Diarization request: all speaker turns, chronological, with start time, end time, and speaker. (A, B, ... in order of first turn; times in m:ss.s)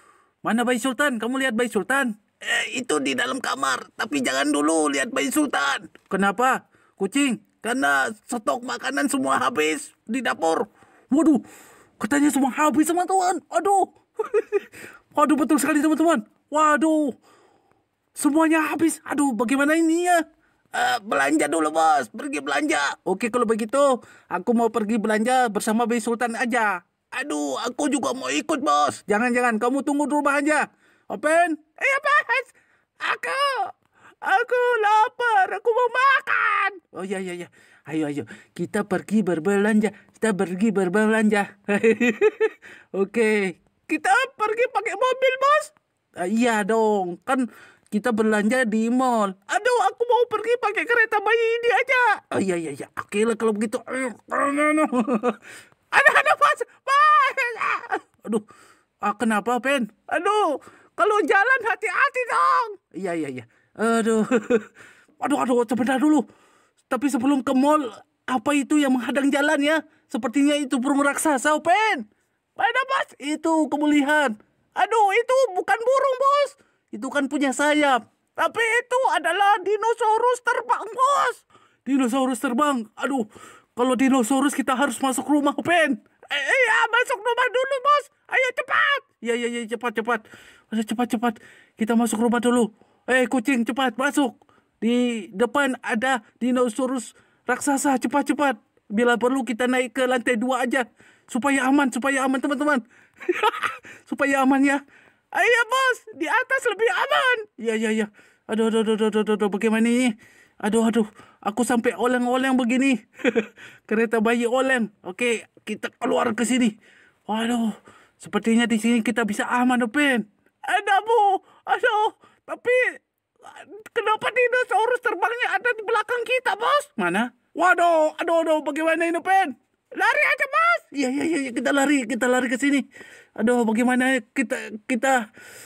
0:00.4-0:11.4 A
0:12.0-0:17.2 A
0:18.2-0:20.2 A
0:20.7-0:33.7 A
0:34.2-0:55.4 A
0:55.9-0:58.4 A
0:59.0-1:04.7 A
1:05.2-1:06.2 A
1:06.9-1:12.0 A
1:12.6-1:23.2 A
1:23.8-1:44.8 A
1:45.3-1:56.7 A
1:57.3-2:02.9 A
2:03.4-2:12.9 A
2:13.4-2:15.2 A